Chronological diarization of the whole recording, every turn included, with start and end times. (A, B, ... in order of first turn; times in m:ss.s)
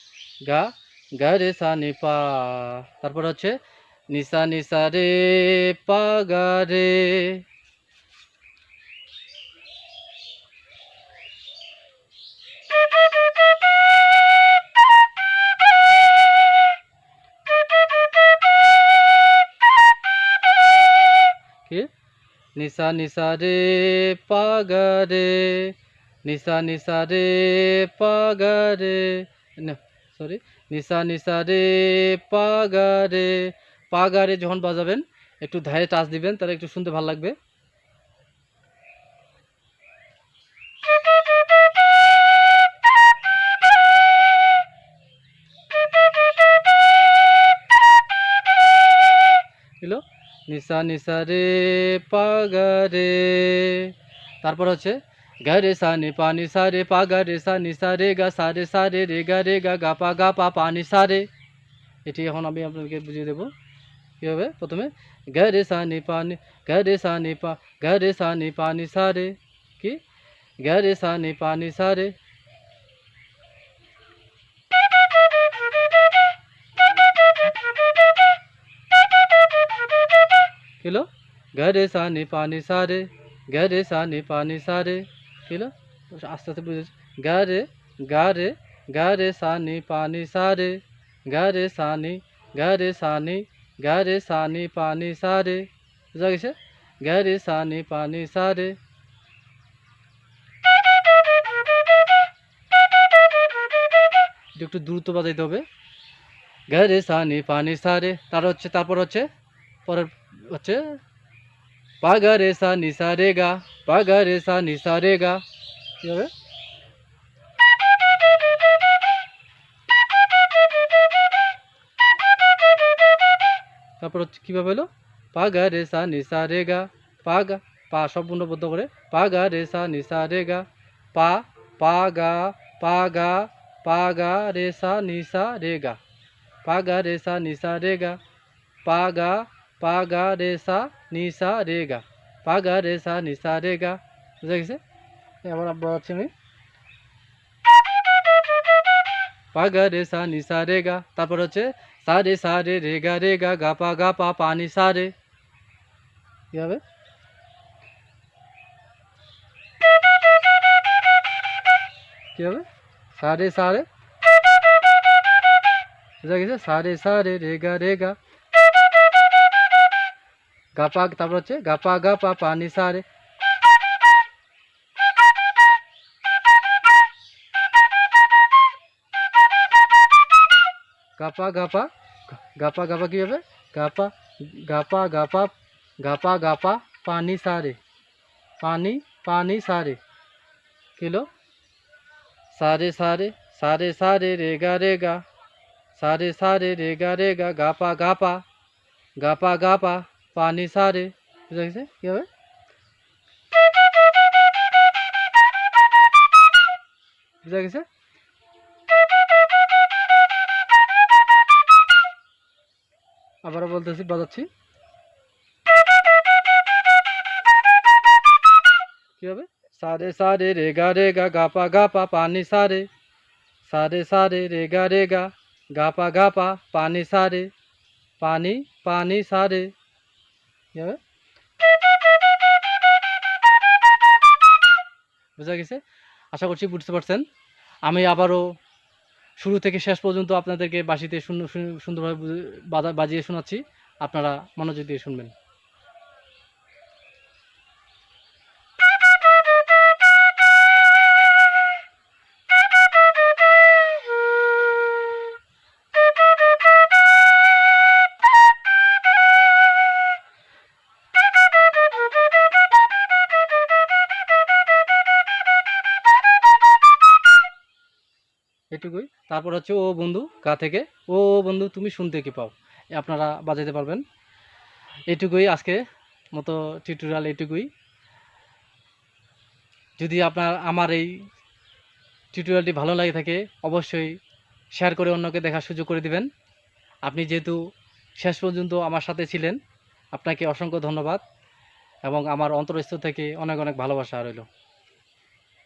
0:00.4-0:03.5 A
0:04.1-0:07.4 A
0:22.6-0:37.3 A
0:49.8-1:01.3 A
1:02.0-1:03.5 A
1:04.2-1:10.0 A
1:10.6-1:12.1 A
1:20.8-1:38.8 A
1:44.6-1:45.6 A
1:46.7-1:49.3 A
1:49.8-1:50.9 A
1:52.0-1:55.4 A
1:56.0-1:56.3 A
2:04.0-2:16.0 A
2:16.6-2:18.2 A
2:18.8-2:24.8 A
2:25.4-2:26.3 A
2:29.5-2:35.1 A
2:36.5-2:36.8 A
2:42.3-2:42.6 A
2:43.2-2:43.8 A
2:46.2-2:48.2 A
2:50.7-2:53.0 A
3:01.2-3:07.8 A
3:08.6-3:10.0 A
3:11.0-3:11.3 A
3:12.5-3:15.2 A
3:15.9-3:18.4 A
3:19.2-3:22.3 A
3:27.4-3:27.8 A
3:33.4-3:34.5 A
3:39.2-3:42.9 A
3:43.6-3:47.5 A
3:48.2-3:49.7 A
3:55.4-3:55.8 A
3:56.3-3:57.2 A
3:57.8-3:58.4 A
3:59.4-4:05.3 A
4:28.7-4:34.0 A
4:35.1-4:35.8 A
4:36.3-4:37.7 A
4:40.0-4:41.1 A
4:42.3-4:44.1 A
4:44.7-4:46.3 A
4:47.0-4:47.6 A
4:48.2-4:49.6 A
4:50.1-4:51.2 A
4:52.0-4:54.4 A